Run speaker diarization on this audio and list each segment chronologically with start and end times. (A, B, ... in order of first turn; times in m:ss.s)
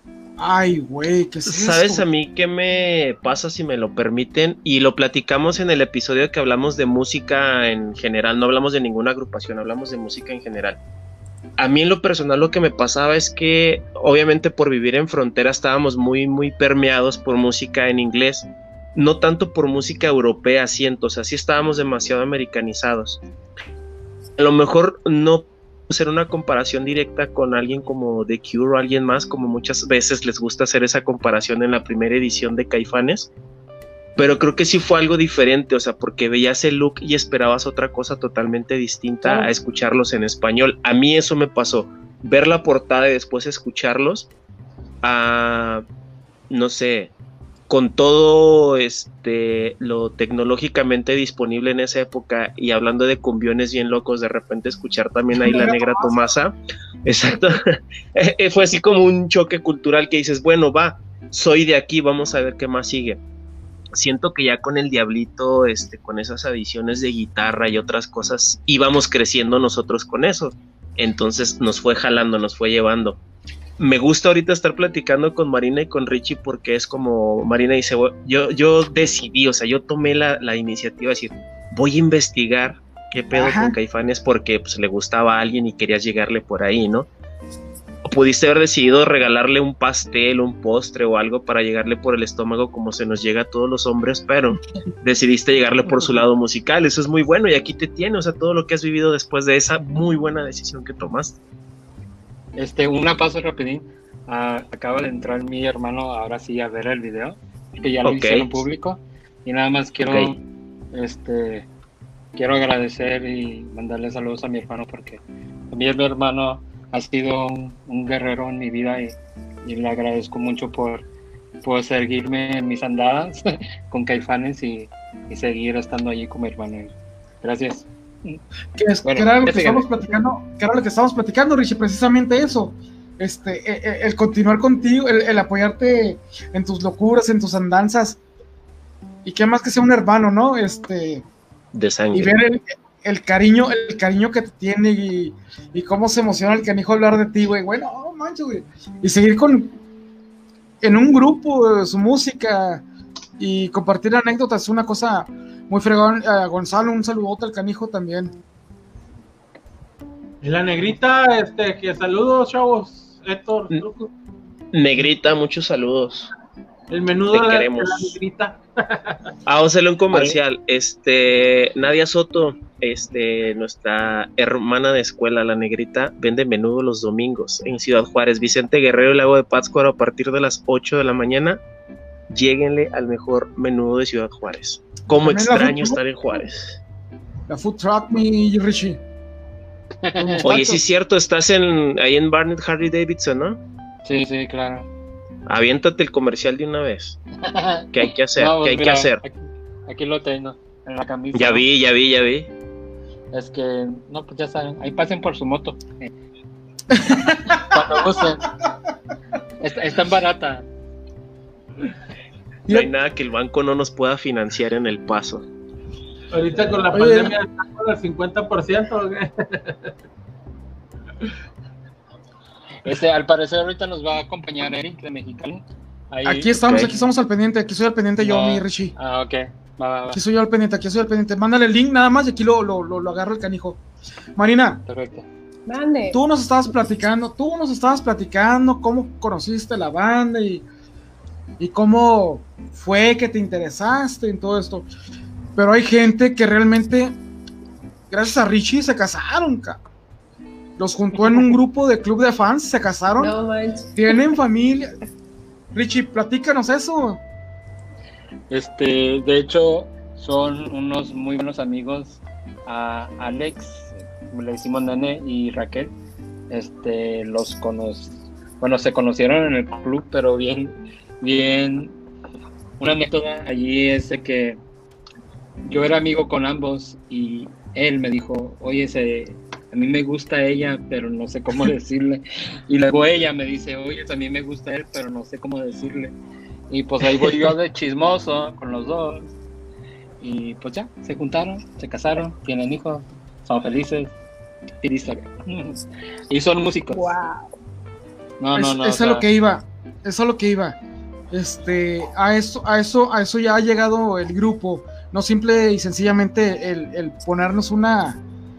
0:00.4-0:02.0 A
0:01.5-0:10.8 B
0:11.6-0:23.2 B
0:24.4-0:33.3 B
0:34.2-0:44.3 B
0:45.0-0:45.8 B
0:46.5-0:47.1 B
0:47.7-1:03.2 B
0:55.4-0:56.2 A
1:03.9-1:13.2 B
1:13.8-1:27.1 B
1:23.3-1:23.8 A
1:28.0-1:41.4 B
1:42.6-1:51.7 C
1:48.0-1:48.5 B
1:50.1-1:50.3 B
1:52.4-2:01.1 C
2:01.6-2:08.4 C
2:08.8-2:18.2 A
2:09.0-2:10.1 C
2:19.2-2:21.3 A
2:21.7-2:22.4 B
2:22.1-2:29.8 A
2:30.8-2:32.8 A
2:33.4-2:38.4 A
2:40.4-2:44.1 D
2:44.7-2:46.3 B
2:46.9-2:49.2 D
2:47.3-2:48.2 B
2:49.5-3:01.6 B
2:50.1-2:50.4 C
3:02.3-3:06.8 B
3:05.1-3:06.0 A
3:07.5-3:09.0 A
3:10.0-3:10.4 C
3:10.2-3:10.8 A
3:10.4-3:13.6 B
3:14.0-3:14.9 C
3:15.5-3:17.2 B
3:17.4-3:21.6 C
3:17.9-3:19.2 B
3:21.4-3:22.5 B
3:23.3-3:26.1 C
3:26.9-3:27.6 A
3:27.3-3:28.5 C
3:29.6-3:30.7 C
3:32.7-3:35.4 B
3:36.3-3:39.9 D
3:36.9-3:37.4 A
3:42.8-3:47.0 C
3:46.2-3:48.9 A
3:46.6-3:46.9 B
3:48.2-3:50.2 C
3:50.1-3:53.8 A
3:54.4-3:54.8 A
3:54.9-3:55.3 C
3:55.7-3:56.2 E
3:56.1-4:00.7 A
4:01.6-4:04.9 A
4:05.6-4:07.2 A
4:08.1-4:09.8 A
4:10.8-4:13.4 A
4:13.2-4:14.2 E
4:14.0-4:15.0 A
4:15.7-4:17.2 A
4:18.5-4:25.9 C
4:26.5-4:32.0 C
4:32.8-4:34.6 C
4:35.6-4:46.2 C
4:46.7-4:49.3 C
4:50.2-4:54.1 C
4:54.8-4:57.1 C
4:56.9-4:57.6 E
4:58.4-4:59.3 C
4:58.6-5:00.8 A
5:01.3-5:08.2 A